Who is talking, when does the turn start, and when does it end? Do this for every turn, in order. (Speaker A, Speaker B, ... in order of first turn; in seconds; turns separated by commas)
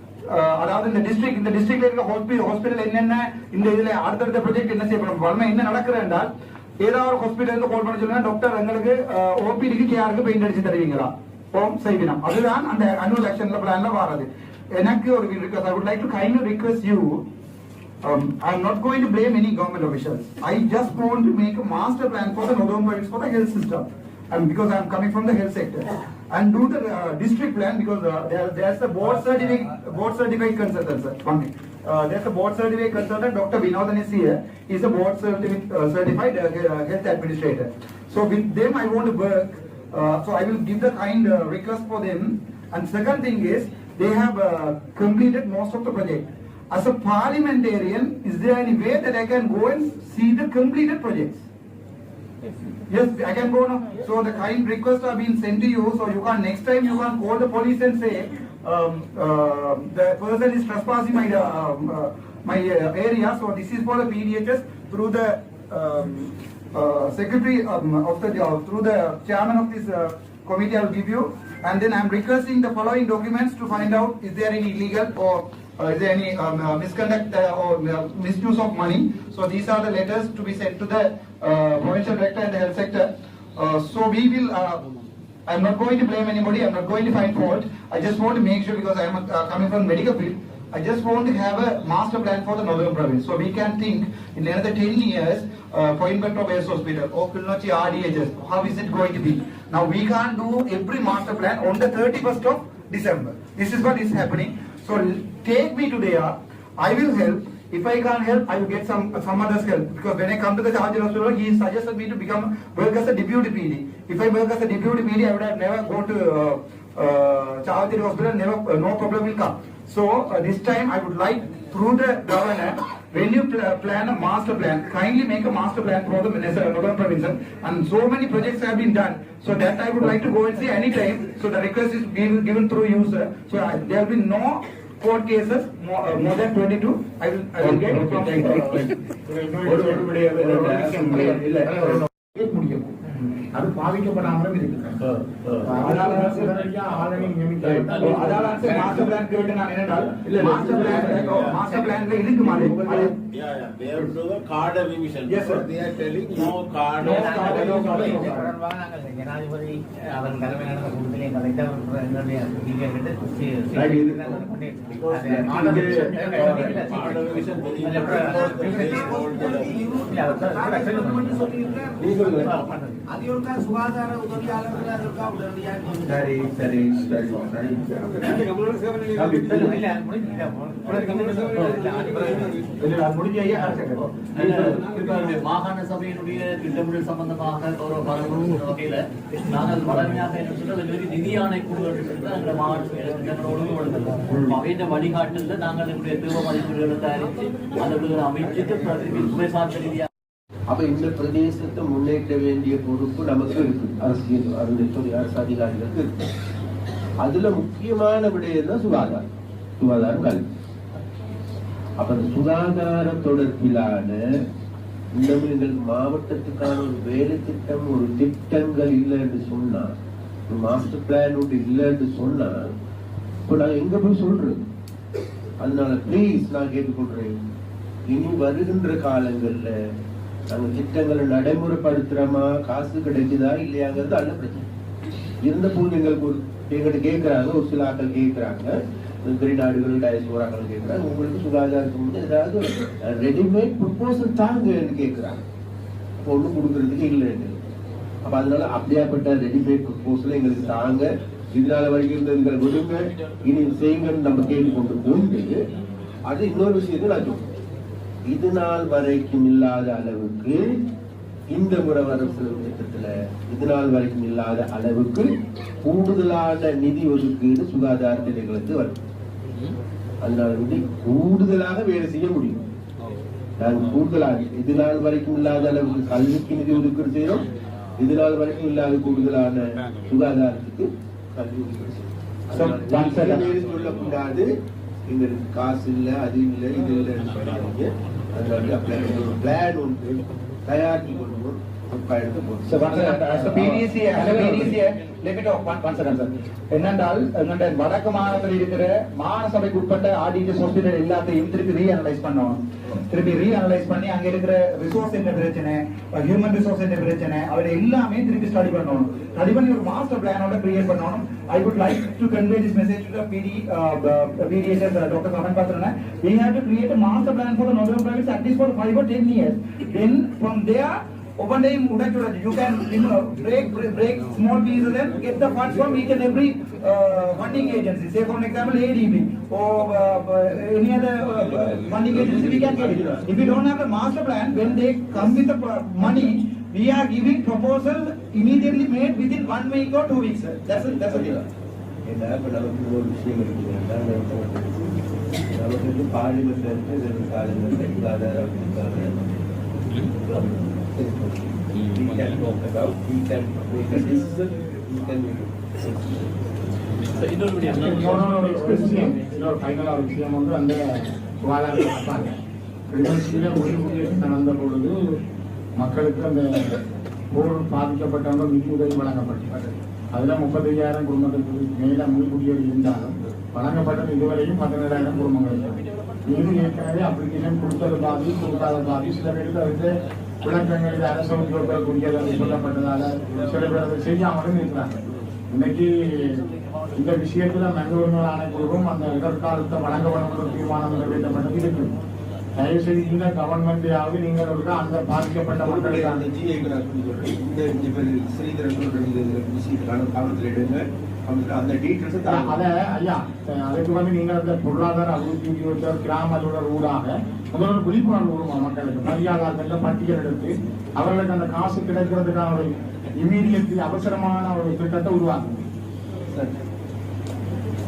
Speaker A: 0.3-17.2, Speaker A: 18.0-51.4, Speaker A: 52.9-84.9, Speaker A: 85.5-138.9, Speaker B: 137.8-138.6, Speaker C: 137.9-138.6, Speaker C: 139.2-142.9, Speaker B: 139.6-142.0, Speaker C: 143.5-145.0, Speaker B: 145.0-145.7, Speaker C: 145.6-148.4, Speaker A: 145.8-146.6, Speaker B: 147.6-148.0, Speaker A: 148.0-153.1, Speaker B: 150.2-151.2, Speaker D: 150.4-151.7, Speaker D: 152.4-158.4, Speaker A: 155.3-155.7, Speaker A: 157.0-158.5, Speaker E: 157.0-169.3, Speaker B: 163.7-164.2, Speaker D: 165.0-169.7, Speaker B: 165.1-166.8, Speaker C: 165.4-166.8, Speaker F: 168.0-172.3, Speaker E: 170.1-171.3, Speaker B: 172.0-172.5, Speaker E: 172.4-173.0, Speaker F: 173.1-176.2, Speaker B: 176.0-178.5, Speaker B: 179.1-179.8, Speaker E: 179.4-182.6, Speaker A: 182.8-184.7, Speaker G: 184.3-200.1, Speaker B: 194.3-194.6, Speaker B: 200.7-206.2, Speaker B: 207.2-209.2, Speaker B: 209.8-210.4, Speaker B: 212.0-214.2, Speaker B: 215.2-219.9, Speaker B: 220.5-222.7, Speaker B: 223.4-224.6, Speaker B: 225.6-227.4, Speaker B: 228.1-229.8, Speaker B: 230.5-234.7, Speaker B: 235.4-245.4, Speaker B: 246.2-247.6, Speaker B: 248.2-255.6, Speaker B: 256.3-257.4, Speaker B: 258.3-260.8, Speaker B: 261.5-265.3, Speaker B: 265.8-268.9, Speaker B: 270.2-272.6, Speaker B: 273.6-277.4, Speaker B: 278.0-284.5, Speaker A: 282.5-283.5, Speaker B: 285.1-294.7, Speaker A: 292.6-341.3, Speaker B: 332.1-333.5, Speaker B: 340.4-341.5, Speaker B: 342.1-344.9, Speaker B: 345.5-349.1, Speaker B: 350.0-356.2, Speaker G: 357.2-359.2, Speaker C: 357.7-362.3, Speaker C: 362.9-365.0, Speaker C: 365.8-366.7, Speaker C: 367.3-369.6, Speaker C: 370.1-379.9, Speaker C: 380.4-385.0, Speaker C: 385.5-386.4, Speaker C: 386.9-391.9, Speaker C: 392.6-396.2, Speaker B: 395.6-402.6, Speaker C: 402.2-415.6, Speaker B: 416.3-416.6